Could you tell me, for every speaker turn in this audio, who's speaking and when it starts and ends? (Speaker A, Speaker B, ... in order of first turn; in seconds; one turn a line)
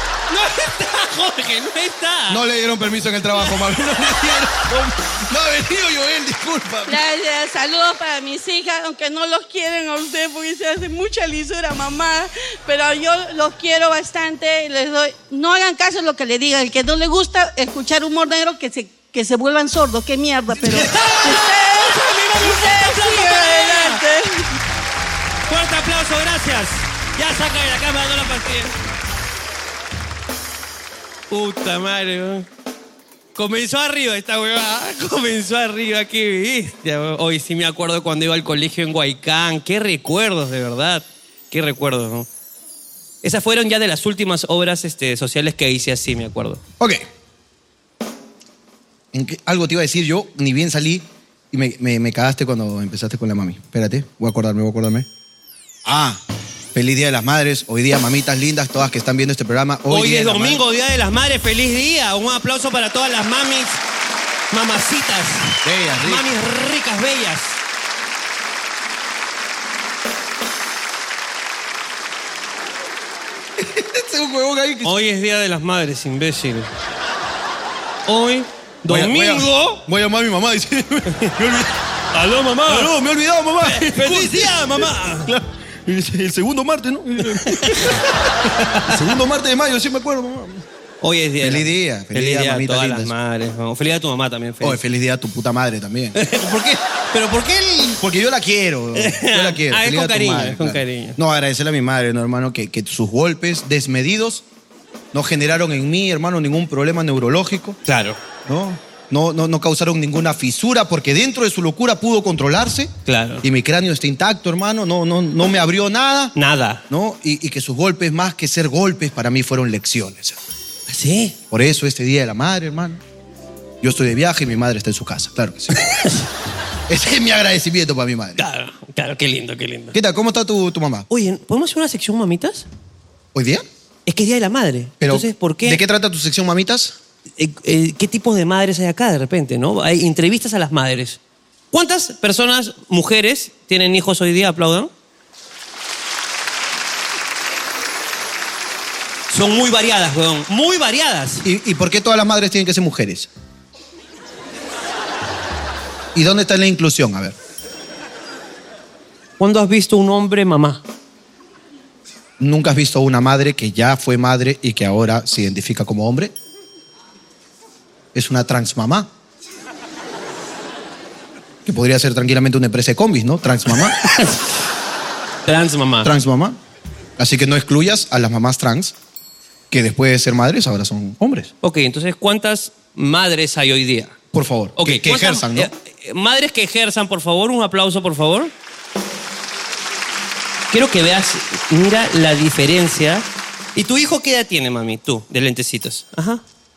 Speaker A: 0.3-2.4
Speaker B: 2.3-7.0
Speaker C: 6.9-24.5
Speaker A: 20.6-24.0
Speaker A: 25.5-28.7
Speaker A: 31.3-32.5
Speaker A: 33.3-42.3
Speaker A: 43.2-46.6
Speaker B: 46.8-47.0
Speaker B: 49.1-55.1
Speaker B: 55.8-56.2
Speaker B: 56.7-60.6
Speaker A: 59.9-63.8
Speaker A: 64.5-67.6
Speaker B: 65.6-66.3
Speaker B: 73.6-74.9
Speaker A: 74.8-76.7
Speaker A: 78.1-79.8
Speaker B: 78.9-81.7
Speaker A: 82.1-82.9
Speaker B: 82.6-90.6
Speaker A: 83.6-85.3
Speaker A: 87.5-87.9
Speaker A: 88.6-89.0
Speaker A: 91.0-94.8
Speaker B: 91.4-93.1
Speaker B: 94.6-96.2
Speaker A: 96.1-98.0
Speaker B: 98.0-104.4
Speaker A: 99.0-101.2
Speaker B: 105.1-107.8
Speaker A: 107.8-108.2
Speaker B: 108.5-112.9
Speaker A: 113.0-113.4
Speaker B: 113.4-116.3
Speaker A: 116.3-116.8
Speaker B: 116.9-120.4
Speaker A: 120.9-121.3
Speaker B: 121.5-123.0
Speaker B: 123.8-125.8
Speaker A: 125.8-126.3
Speaker B: 126.9-128.4
Speaker A: 128.4-129.9
Speaker B: 129.9-131.1
Speaker A: 131.1-132.7
Speaker B: 133.3-133.6
Speaker A: 134.1-135.8
Speaker B: 135.0-136.9
Speaker A: 137.4-141.2
Speaker A: 141.7-144.9
Speaker A: 149.3-151.4
Speaker B: 151.4-153.3
Speaker B: 156.1-157.3
Speaker A: 159.4-160.8
Speaker B: 162.4-166.3
Speaker B: 168.1-169.1
Speaker B: 171.7-174.0
Speaker A: 174.0-174.4
Speaker A: 175.4-176.1
Speaker B: 176.0-176.6
Speaker B: 177.2-178.9
Speaker B: 179.7-181.5
Speaker A: 181.6-184.1
Speaker B: 184.3-185.7
Speaker A: 184.8-188.5
Speaker A: 190.7-196.4